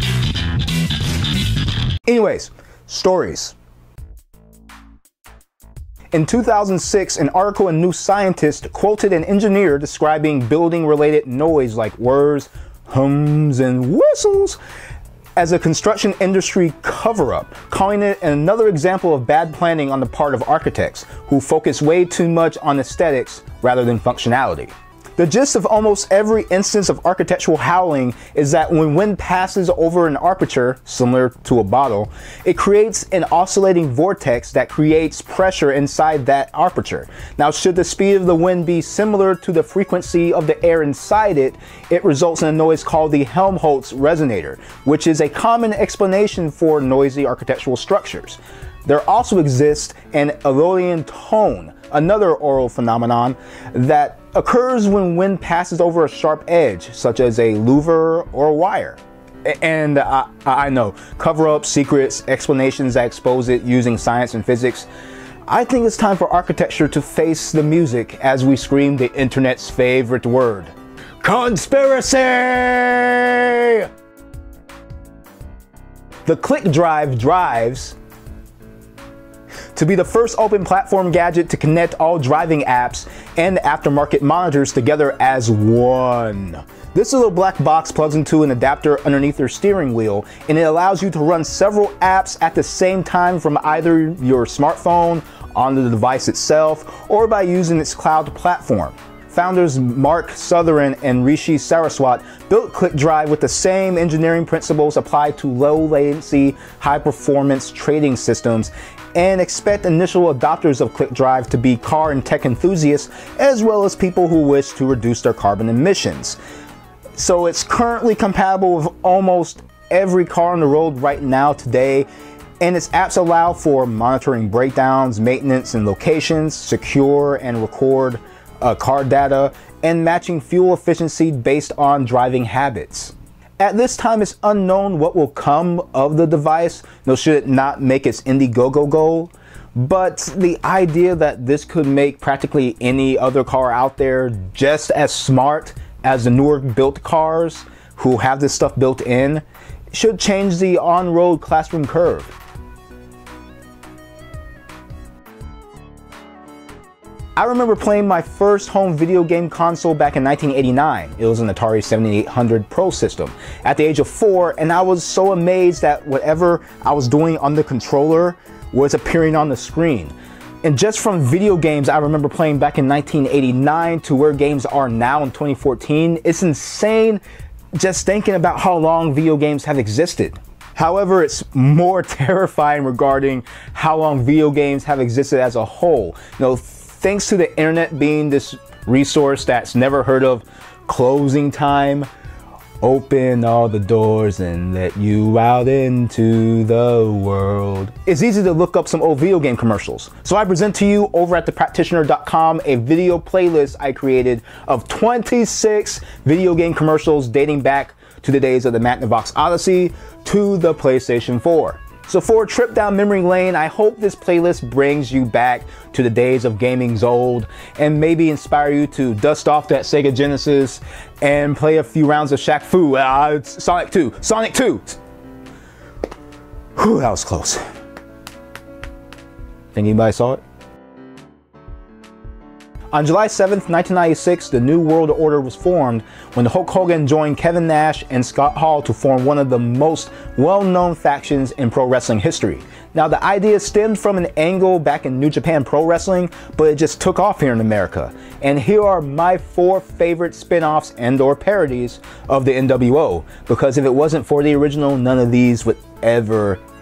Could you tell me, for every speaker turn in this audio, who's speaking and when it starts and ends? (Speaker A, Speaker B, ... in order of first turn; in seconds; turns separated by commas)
Speaker A: 2.0-3.5, Speaker A: 6.1-14.6, Speaker A: 15.4-64.9, Speaker A: 65.5-73.9, Speaker A: 76.2-78.0, Speaker A: 79.8-116.4, Speaker A: 117.2-122.1, Speaker A: 122.6-152.3, Speaker A: 157.4-177.2, Speaker A: 177.8-192.1, Speaker A: 192.8-225.0, Speaker A: 226.8-227.6, Speaker A: 229.7-230.4, Speaker A: 232.9-256.6